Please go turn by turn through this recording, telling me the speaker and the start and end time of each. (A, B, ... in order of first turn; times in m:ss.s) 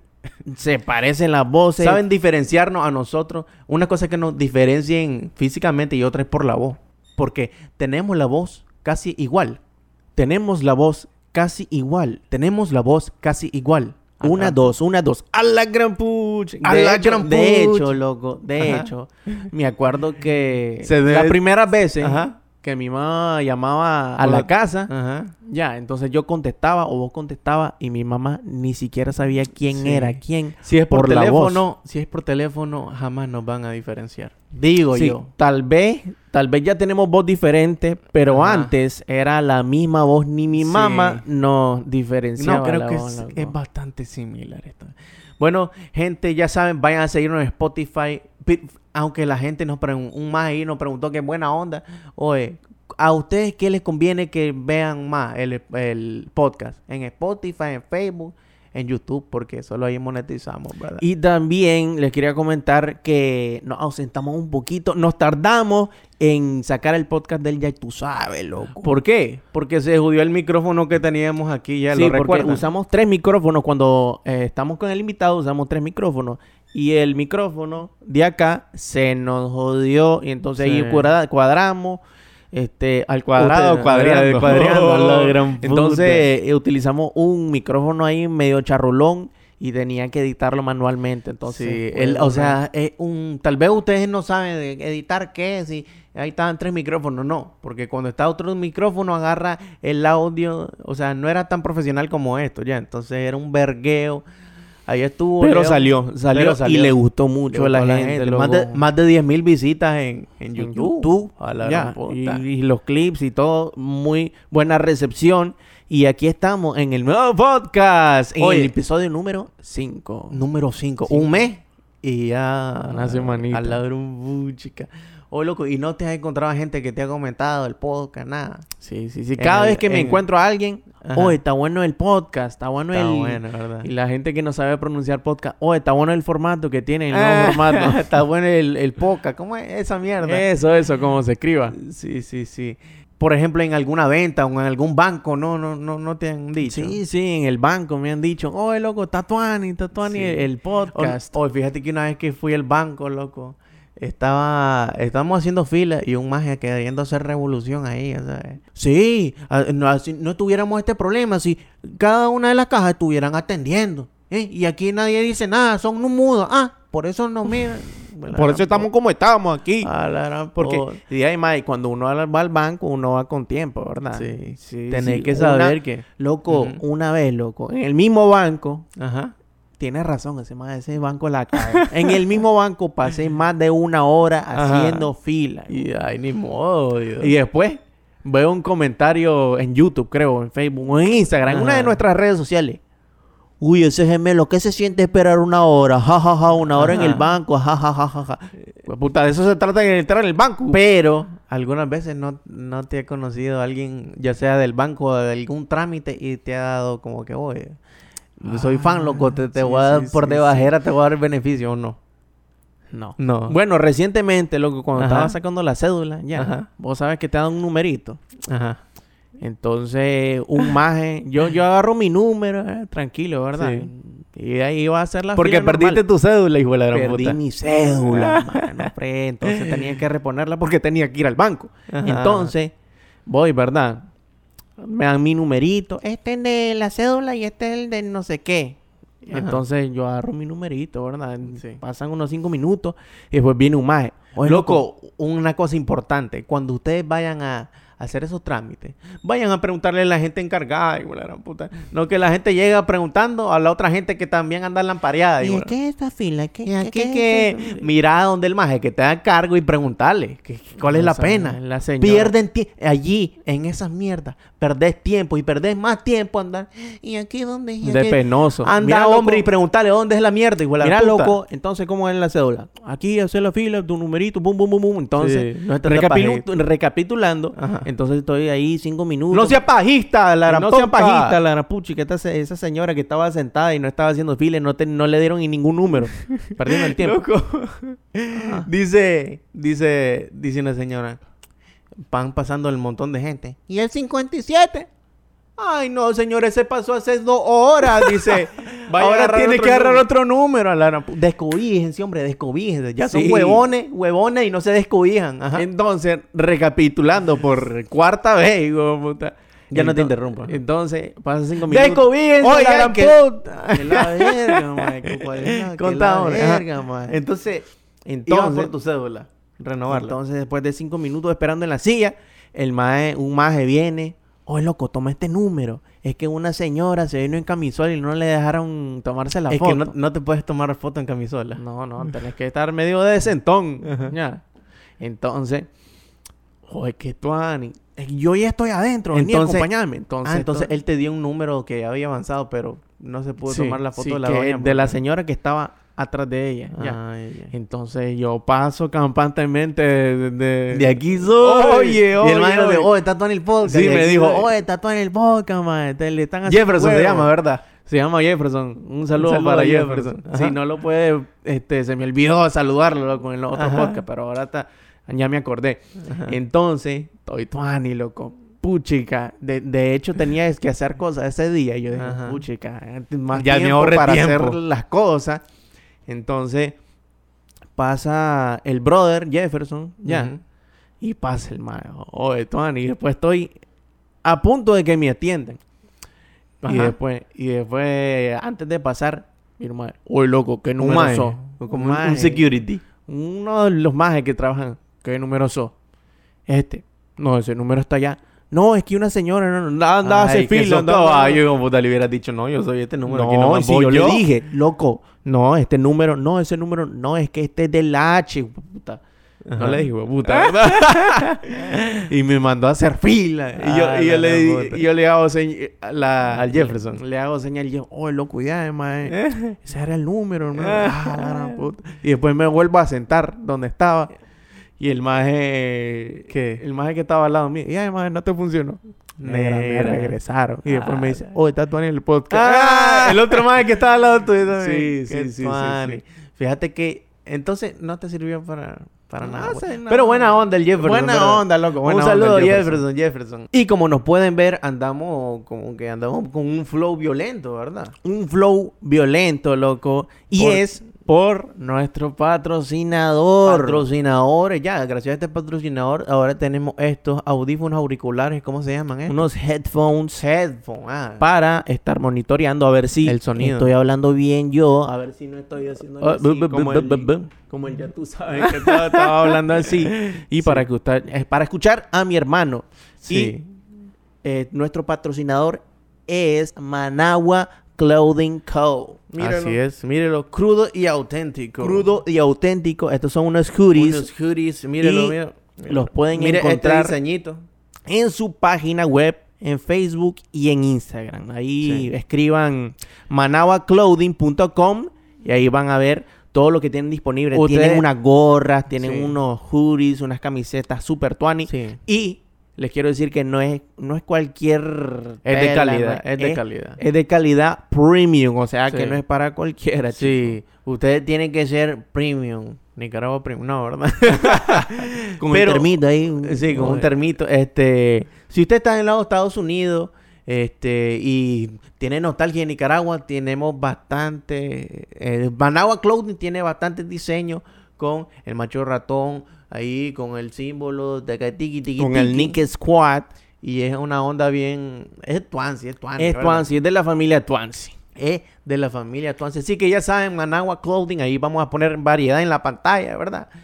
0:00.4-0:02.0 A
0:01.8-0:09.6 B
0:10.2-0:12.2 A
0:12.3-0:14.7 B
0:14.2-0:24.9 A
0:16.6-0:18.0 B
0:18.6-0:18.9 B
0:20.8-0:21.4 B
0:22.0-0:22.4 B
0:24.2-0:25.3 B
0:25.4-0:31.6 A
0:29.6-0:35.2 B
0:34.9-0:43.5 A
0:38.3-0:38.7 B
0:40.6-0:41.2 B
0:42.4-1:01.0 B
1:01.0-1:09.4 A
1:08.6-1:12.7 B
1:11.9-1:32.6 A
1:20.6-1:21.1 B
1:23.4-1:26.3 B
1:31.4-1:44.2 B
1:44.9-1:47.0 B
1:45.4-1:48.8 A
1:47.5-1:52.4 B
1:50.6-2:00.4 A
1:58.4-1:58.7 B
2:00.3-2:08.6 B
2:01.0-2:01.4 A
2:02.8-2:03.8 A
2:08.8-2:18.0 A
2:09.4-2:10.2 B
2:11.0-2:11.4 B
2:12.9-2:13.9 B
2:17.1-2:20.5 B
2:20.2-2:21.8 A
2:21.7-2:27.0 B
2:26.6-2:31.4 A
2:30.0-2:48.9 B
2:48.3-2:49.9 A
2:49.8-2:51.0 B
2:50.6-2:58.9 A
2:54.1-2:56.8 B
2:59.0-2:59.3 B
2:59.8-3:06.1 A
3:01.5-3:02.4 B
3:04.5-3:05.1 B
3:05.7-3:07.3 B
3:07.2-3:12.8 A
3:11.5-3:12.0 B
3:13.6-3:20.8 A
3:16.7-3:17.4 B
3:20.7-3:27.8 B
3:28.4-3:32.0 B
3:28.4-3:30.7 A
3:32.9-3:38.2 A
3:33.2-3:33.6 B
3:35.0-3:35.4 B
3:36.3-3:36.7 B
3:38.4-3:38.8 B
3:39.4-3:46.0 A
3:43.5-3:43.9 B
3:45.4-3:48.9 B
3:46.9-3:52.7 A
3:49.4-3:50.0 B
3:51.9-3:52.5 B
3:53.3-3:54.1 A
3:54.8-4:04.8 A
3:59.3-3:59.6 B
4:01.4-4:01.8 B
4:04.4-4:15.7 B
4:15.4-4:17.8 A
4:16.6-4:31.4 B
4:20.8-4:22.3 A
4:27.8-4:29.4 A
4:30.8-4:39.6 A
4:35.2-4:36.4 B
4:37.5-4:37.9 B
4:39.3-4:41.4 B
4:40.5-4:47.2 A
4:46.4-4:51.2 B
4:48.3-4:48.6 A
4:52.1-4:54.9 B
4:55.6-5:05.6 B
4:57.8-5:00.6 A
5:03.0-5:03.6 A
5:05.5-5:17.1 A
5:09.7-5:10.6 B
5:11.6-5:17.7 B
5:18.0-5:18.7 A
5:18.3-5:20.2 B
5:19.9-5:29.9 A
5:29.5-5:32.1 B
5:31.6-5:34.4 A
5:33.8-5:34.1 B
5:35.0-5:35.7 A
5:36.7-5:40.7 A
5:39.0-5:39.7 B
5:40.2-5:45.0 B
5:43.5-5:47.0 A
5:46.7-5:47.5 B
5:47.5-5:52.9 A
5:50.7-5:54.5 B
5:53.6-6:15.4 A
5:56.5-5:57.6 B
5:59.1-6:00.6 B
6:03.5-6:04.0 B
6:06.0-6:06.4 B
6:11.9-6:12.4 B
6:13.3-6:14.6 B
6:16.1-6:16.8 A
6:17.8-6:20.3 A
6:20.0-6:20.4 B
6:21.0-6:23.5 A
6:24.2-6:25.6 A
6:26.6-6:32.5 A
6:26.6-6:27.0 B
6:30.8-6:32.8 B
6:33.0-6:35.7 A
6:36.5-6:41.4 A
6:40.0-6:44.4 B
6:43.0-6:49.0 A
6:49.4-6:51.8 B
6:49.6-7:04.1 A
6:53.6-6:54.8 B
6:56.2-6:57.0 B
6:59.1-6:59.5 B
7:00.5-7:01.6 B
7:04.8-7:13.5 A
7:06.3-7:06.6 B
7:09.2-7:11.3 B
7:12.3-7:27.9 B
7:14.5-7:16.0 A
7:19.2-7:22.8 A
7:28.0-7:33.8 A
7:30.3-7:30.8 B
7:33.4-7:39.3 B
7:39.1-7:40.2 A
7:40.2-7:41.2 B
7:41.2-7:45.1 A
7:43.0-7:43.7 B
7:45.1-7:47.3 B
7:46.0-7:53.4 A
7:48.3-7:50.6 B
7:53.0-7:53.4 B
7:54.2-7:59.6 A
7:59.2-8:01.9 B
8:01.6-8:04.1 A
8:03.8-8:07.4 B
8:04.8-8:07.0 A
8:07.9-8:30.4 A
8:11.6-8:11.9 B
8:17.3-8:17.9 B
8:18.7-8:19.2 B
8:21.5-8:21.8 B
8:25.2-8:26.8 B
8:28.7-8:29.0 B
8:29.9-8:52.4 B
8:34.2-8:36.9 A
8:51.8-8:53.1 A
8:53.4-8:56.5 B
8:56.0-8:57.8 A
8:58.0-9:03.3 B